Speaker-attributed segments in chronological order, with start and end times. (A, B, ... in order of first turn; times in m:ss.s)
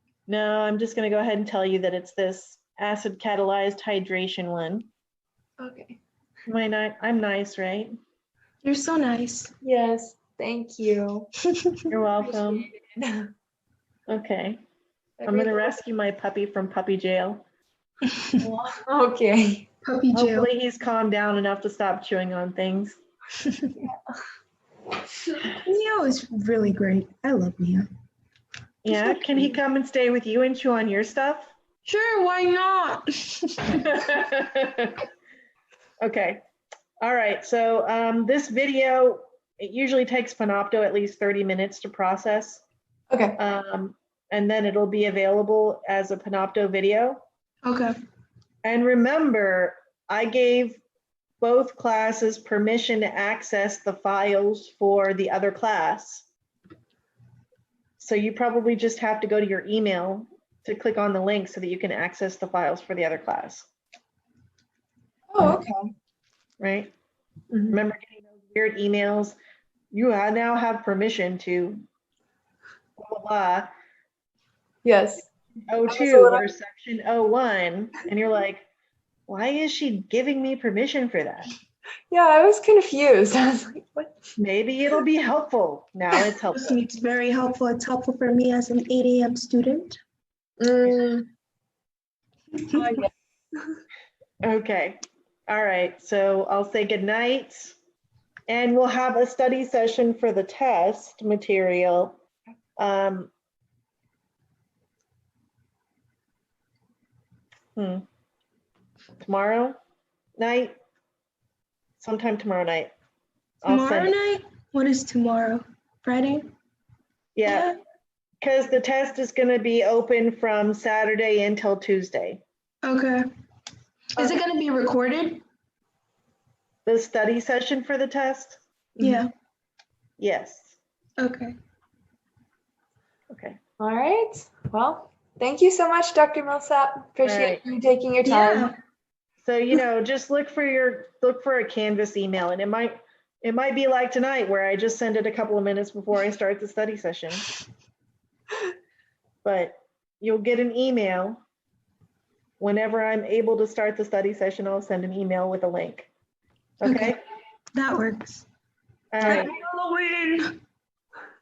0:00.3-0:04.9 A
0:05.6-0:06.0 B
0:06.5-0:07.9 A
0:08.6-0:09.5 C
0:09.6-0:11.3 B
0:11.9-0:12.6 A
0:12.2-0:13.3 B
0:14.1-0:14.6 A
0:15.2-0:15.8 B
0:15.2-0:17.4 A
0:18.4-0:19.7 B
0:19.8-0:20.5 C
0:20.1-0:23.0 A
0:23.7-0:24.1 B
0:25.6-0:27.9 C
0:28.8-0:31.5 A
0:31.8-0:34.0 C
0:33.7-0:35.0 A
0:36.0-0:36.4 A
0:37.0-0:42.6 A
0:43.1-0:43.4 B
0:43.4-0:47.2 A
0:47.6-0:47.9 C
0:48.6-0:50.8 A
0:51.4-0:56.2 A
0:58.0-1:03.7 A
1:05.3-1:05.9 B
1:06.6-1:06.9 A
1:07.5-1:09.4 A
1:09.9-1:11.8 A
1:13.0-1:13.7 A
1:14.8-1:15.3 B
1:15.7-1:18.7 A
1:15.9-1:16.4 B
1:19.3-1:21.5 A
1:22.1-1:24.2 B
1:24.4-1:26.8 A
1:26.5-1:30.0 C
1:30.6-1:31.3 B
1:32.6-1:33.0 C
1:32.7-1:33.1 B
1:34.4-1:37.8 A
1:38.5-1:42.2 A
1:42.8-1:43.3 A
1:47.8-1:48.0 A
1:49.2-1:49.8 A
1:50.4-1:50.8 A
1:52.0-1:52.9 A
1:53.6-1:54.2 A
1:53.6-1:56.5 C
1:57.4-1:57.7 A
1:57.4-1:57.7 C
1:58.4-2:02.4 A
2:02.8-2:03.2 C
2:04.2-2:05.4 C
2:06.8-2:09.2 A
2:09.0-2:09.3 C
2:10.2-2:10.8 A
2:11.2-2:11.5 C
2:13.3-2:13.6 A
2:13.8-2:18.7 B
2:17.2-2:17.6 A
2:18.2-2:18.7 C
2:19.4-2:27.5 A
2:29.4-2:31.4 A
2:32.6-2:36.1 A
2:36.8-2:37.2 A
2:36.8-2:37.2 C
2:37.7-2:38.4 C
2:39.1-2:39.5 A
2:39.2-2:40.5 C